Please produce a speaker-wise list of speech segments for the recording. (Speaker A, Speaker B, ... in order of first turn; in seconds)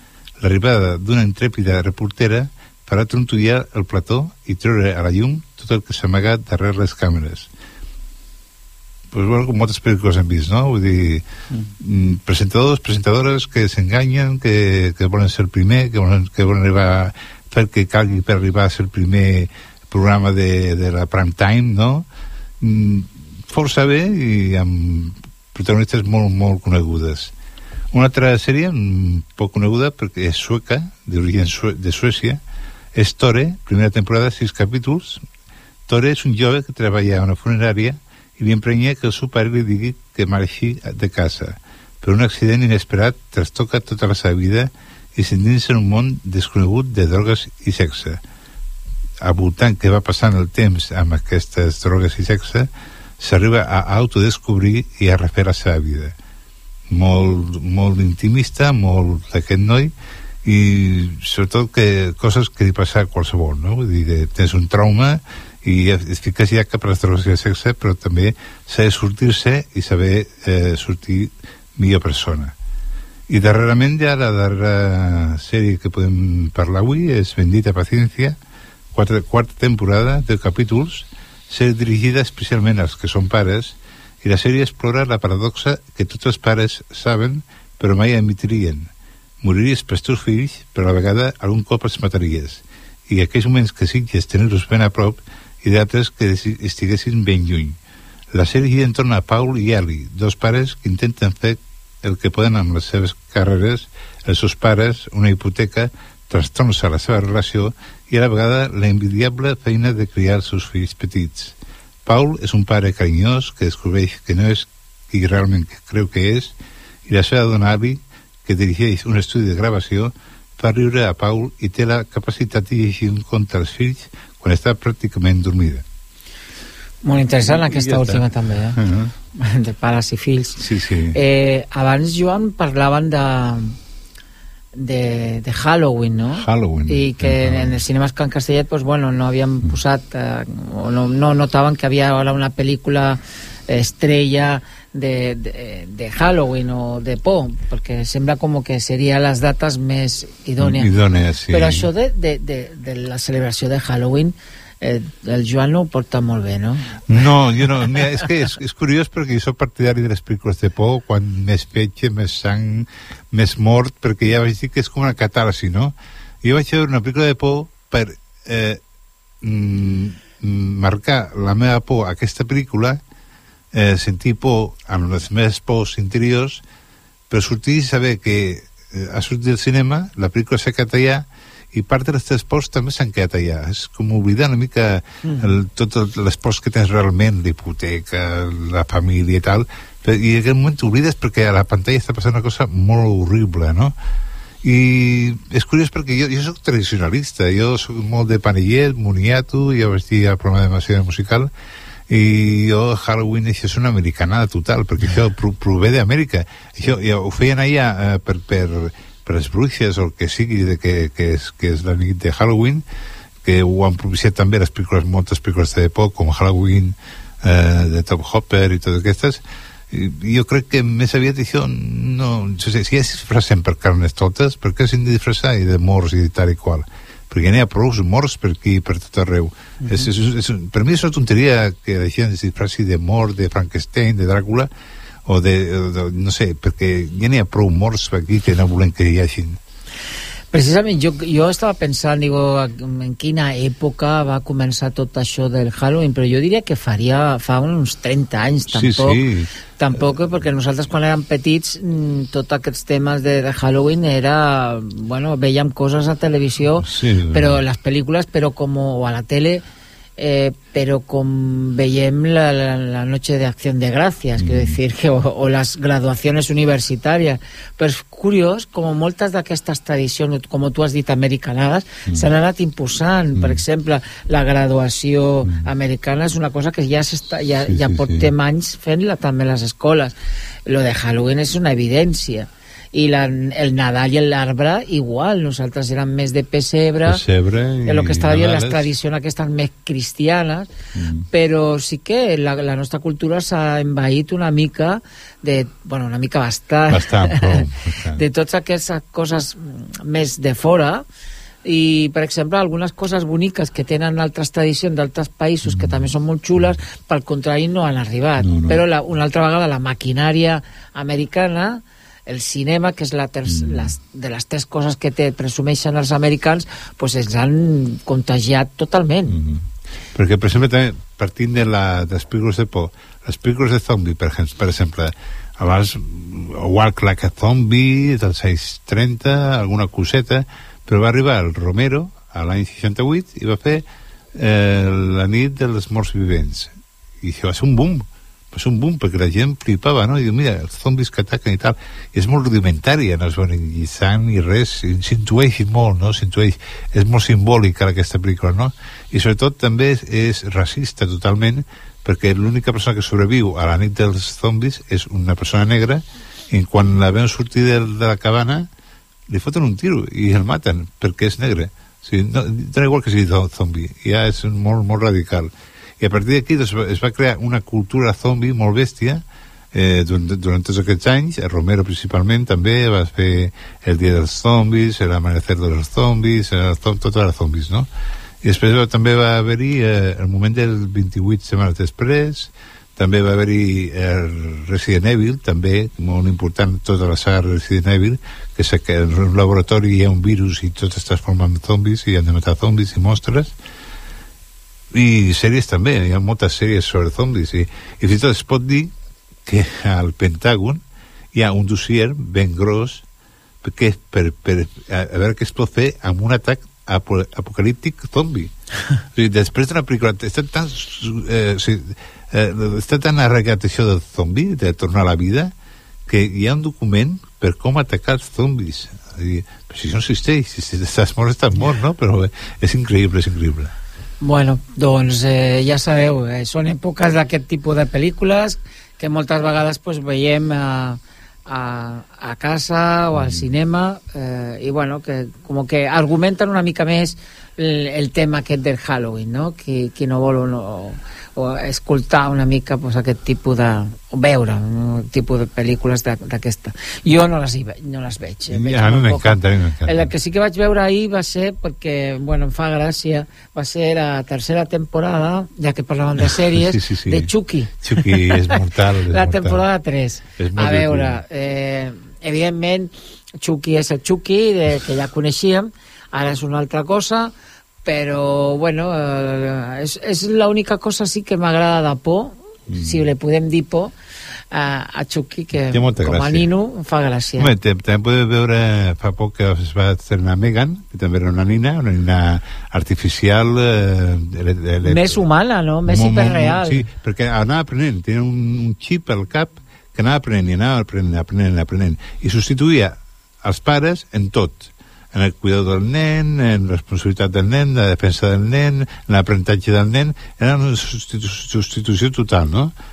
Speaker A: 0.4-7.5, 9.1-11.2, 11.8-22.1, 22.6-27.3, 27.9-32.4, 33.0-35.2, 35.9-48.2, 49.2-56.2, 56.9-59.9, 60.4-72.5, 73.3-78.4, 78.9-88.9, 89.4-97.8, 98.3-116.5, 117.1-125.8, 127.5-129.1, 130.6-131.2, 136.4-137.8, 150.6-151.9, 157.1-168.8, 169.4-173.0, 173.7-176.6, 177.3-193.9, 194.6-201.5, 202.1-212.8, 213.4-234.7, 235.3-239.6, 248.7-249.5, 256.8-257.6, 264.4-264.8, 273.4-273.6, 277.7-278.3, 287.1-288.9, 290.9-291.3, 296.9-298.2, 305.7-306.8, 308.4-308.8, 313.5-313.9, 319.3-319.6, 320.1-358.7, 359.3-377.9, 378.4-393.5, 394.9-398.9, 399.5-403.1, 403.6-408.5, 409.1-415.5, 416.1-423.7, 433.1-433.4, 448.5-450.1, 456.2-457.3, 457.8-459.6, 460.4-461.2, 472.7-473.1, 475.5-476.5, 477.4-485.2, 485.9-502.7
Speaker B: 127.0-128.8, 129.3-130.6, 131.1-133.8, 134.8-150.9, 151.5-157.0, 185.2-185.5, 229.8-230.1, 240.5-249.2, 249.8-259.6, 260.2-280.1, 280.7-287.2, 287.9-290.7, 291.3-297.6, 298.2-301.1, 301.6-319.4, 424.2-467.3, 467.9-473.9, 474.5-477.5, 484.8-486.9